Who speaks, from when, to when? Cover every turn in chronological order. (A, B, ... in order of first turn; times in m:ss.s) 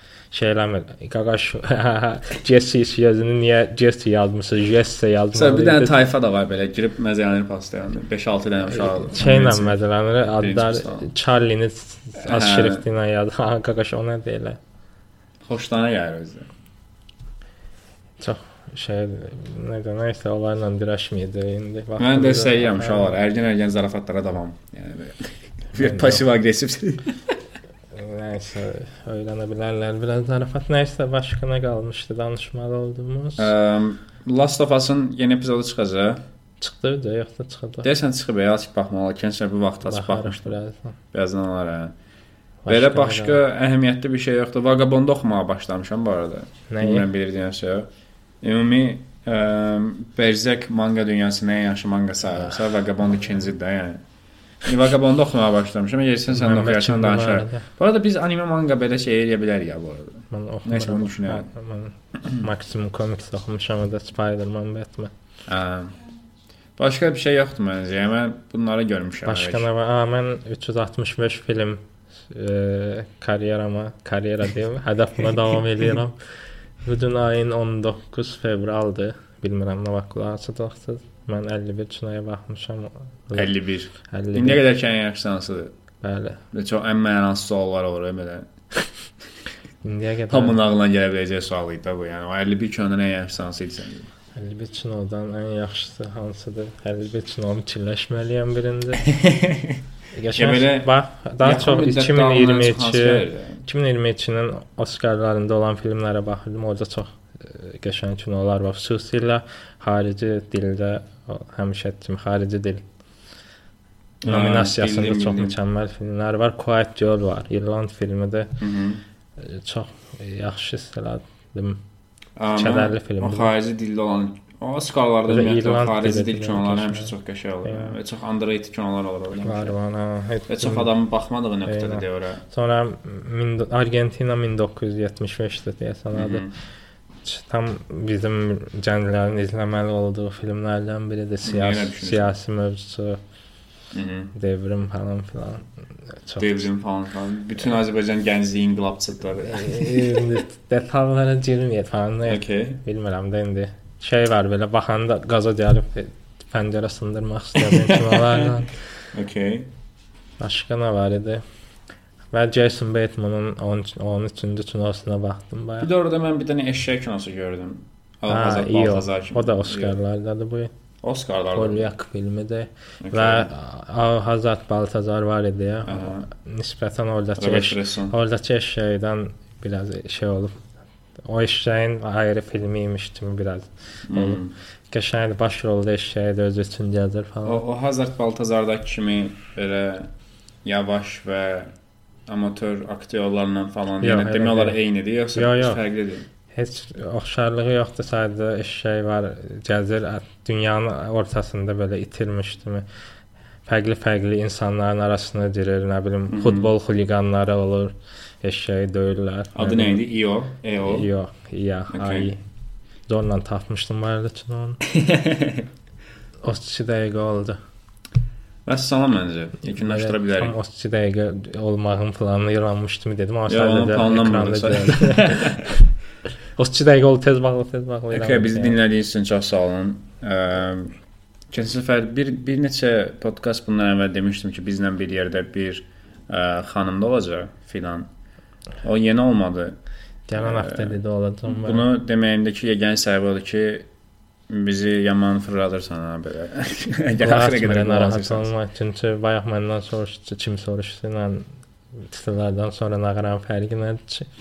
0:00.3-0:06.0 A
0:05.3-0:09.8 B
0:08.6-0:14.6 A
0:10.4-0:11.1 B
0:12.2-0:12.8 B
0:15.5-0:16.5 B
0:18.2-0:23.2 A
0:22.0-0:27.1 B
0:25.8-0:26.2 A
0:27.9-0:33.5 A
0:33.4-0:36.2 B
0:36.6-0:37.9 A
0:37.8-0:40.6 B
0:39.8-0:41.0 A
0:41.1-0:41.9 B
0:42.6-0:43.4 A
0:42.7-0:47.9 B
0:46.7-0:47.1 A
0:48.4-0:54.0 B
0:54.6-1:01.5 B
0:56.3-0:57.6 A
1:00.3-1:05.1 A
1:05.5-1:06.0 B
1:06.8-1:09.7 B
1:09.2-1:16.2 A
1:16.8-1:23.5 A
1:23.3-1:25.7 B
1:24.0-1:24.6 A
1:26.0-1:26.4 A
1:26.5-1:28.5 B
1:29.8-1:30.6 A
1:30.3-1:34.1 B
1:34.4-1:39.0 A
1:39.0-1:39.8 B
1:40.1-1:52.8 A
1:40.4-1:43.6 B
1:54.2-1:55.6 B
1:54.3-1:58.6 A
1:58.6-1:59.0 B
1:59.4-2:01.8 A
2:02.4-2:09.8 B
2:02.5-2:03.5 A
2:05.3-2:07.1 A
2:07.6-2:08.0 A
2:09.4-2:10.9 A
2:10.5-2:12.4 B
2:11.7-2:16.4 A
2:16.1-2:16.5 B
2:17.2-2:23.2 A
2:21.4-2:22.3 B
2:23.9-2:24.3 B
2:24.4-2:25.7 A
2:26.2-2:26.6 A
2:26.4-2:30.0 B
2:29.5-2:38.8 A
2:32.2-2:32.8 B
2:37.6-2:38.5 B
2:39.1-2:39.7 B
2:40.4-2:41.4 A
2:42.3-2:45.9 A
2:45.8-2:50.0 B
2:48.3-2:50.7 A
2:51.0-2:51.9 B
2:51.5-3:00.6 A
2:53.0-2:53.5 B
2:55.9-2:56.3 B
2:57.4-2:58.2 B
3:01.2-3:04.4 A
3:04.1-3:04.5 B
3:04.9-3:07.6 A
3:07.4-3:10.1 B
3:10.6-3:11.7 B
3:12.3-3:16.3 B
3:14.0-3:14.8 A
3:15.4-3:15.8 A
3:16.5-3:22.8 A
3:23.7-3:30.0 A
3:26.3-3:26.7 B
3:29.6-3:31.1 B
3:30.8-3:32.4 A
3:31.9-3:32.3 B
3:33.1-3:34.8 A
3:34.9-3:35.6 B
3:36.4-3:37.6 A
3:38.7-3:40.5 B
3:39.7-3:45.8 A
3:43.5-3:45.7 B
3:46.6-3:48.8 A
3:48.1-3:50.9 B
3:51.5-3:58.1 B
3:58.8-3:59.8 B
4:00.3-4:01.9 A
4:00.4-4:01.0 B
4:01.5-4:03.9 B
4:04.5-4:08.5 B
4:07.2-4:11.5 A
4:12.0-4:14.3 A